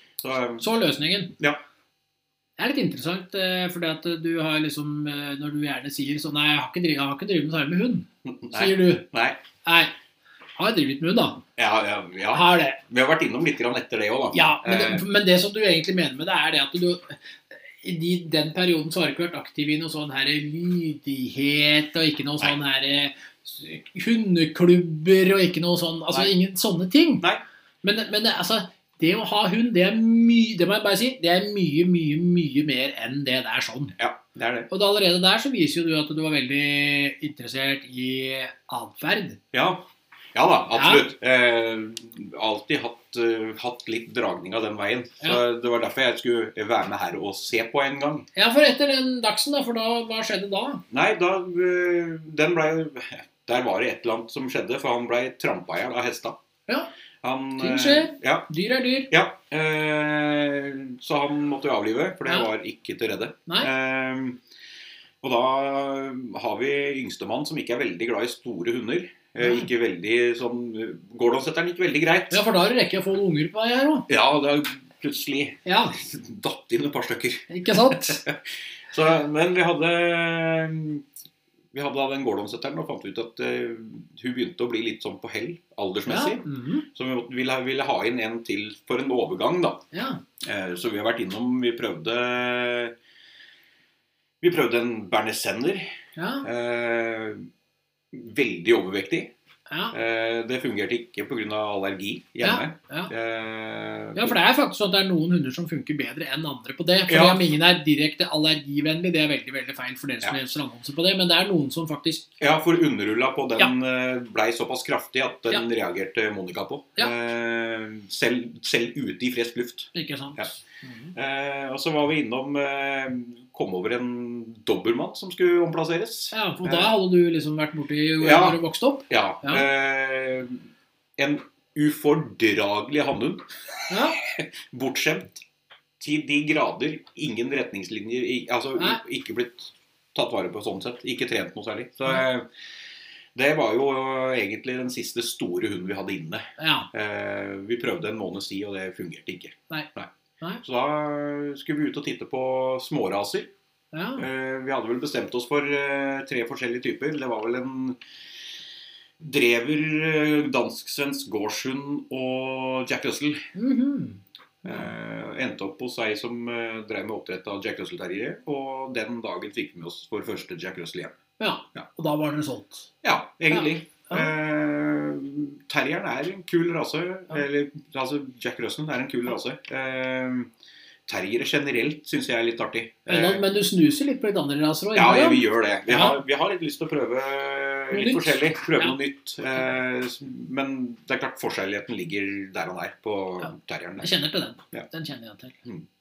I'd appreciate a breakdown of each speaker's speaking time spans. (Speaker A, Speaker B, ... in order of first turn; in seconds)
Speaker A: 0.2-0.7, 8.2-9.4, 11.6-15.0, 34.0-34.7, 39.5-48.3, 50.9-56.4, 57.2-58.5, 59.1-64.4, 65.2-72.4, 74.1-78.4, 78.9-81.0, 81.7-89.8, 90.4-92.9, 94.4-95.9, 96.4-97.5, 98.1-99.3, 99.9-104.3, 107.1-107.5, 112.4-120.5, 121.1-126.9, 128.2-130.6, 131.2-133.4, 134.2-135.4, 136.0-142.4, 143.3-150.1, 150.6-153.5, 154.2-158.0, 159.2-163.4, 164.6-171.2, 173.0-180.5, 181.1-183.4, 184.9-194.1
Speaker B: 0.6-1.3, 2.6-9.1, 9.6-9.9, 10.6-11.4, 12.3-12.8, 14.3-17.2, 17.8-27.2, 27.8-33.9, 34.7-39.4, 40.8-41.1, 48.4-50.8, 57.6-59.1, 69.4-69.7, 72.3-74.1, 75.7-76.0, 77.5-78.2, 86.1-86.9, 89.9-90.2, 96.2-96.5, 99.7-100.0, 102.4-103.1, 104.2-112.3, 119.9-121.1, 126.3-129.6, 133.9-134.2, 146.6-146.9, 153.9-154.2, 163.6-164.9, 171.4-172.9, 173.5-174.3, 183.1-186.2, 187.9-188.9, 193.4-195.6